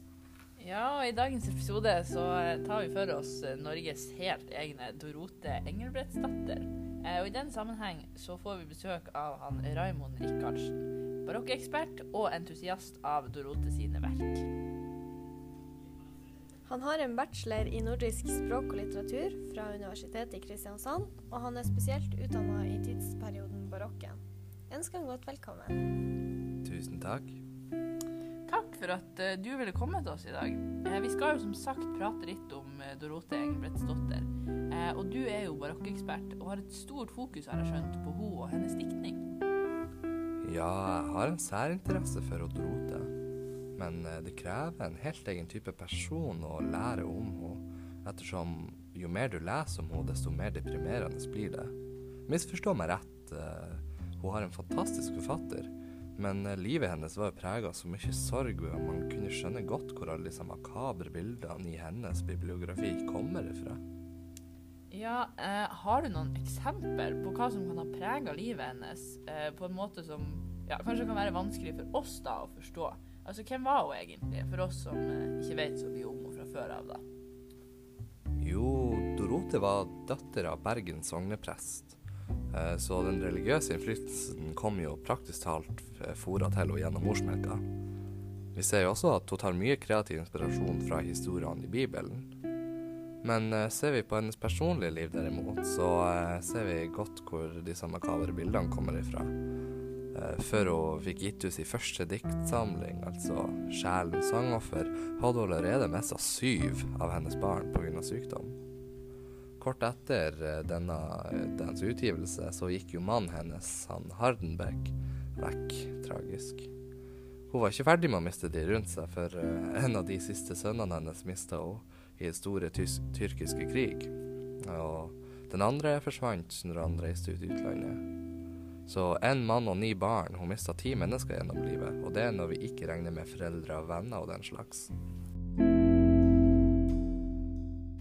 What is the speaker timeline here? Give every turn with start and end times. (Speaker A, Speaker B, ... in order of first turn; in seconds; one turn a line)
Speaker A: 0.6-14.5
Speaker B: 16.7-25.8
Speaker C: 26.6-27.4
Speaker A: 28.5-39.3
Speaker C: 40.4-43.1
Speaker C: 43.8-51.7
Speaker C: 52.3-63.8
Speaker A: 64.9-77.0
Speaker C: 78.4-82.0
Speaker C: 82.5-87.6
Speaker C: 88.5-92.3
Speaker C: 93.2-99.4
Speaker C: 100.1-108.6
Speaker C: 109.6-116.7
Speaker C: 117.5-128.0
Speaker C: 128.9-134.9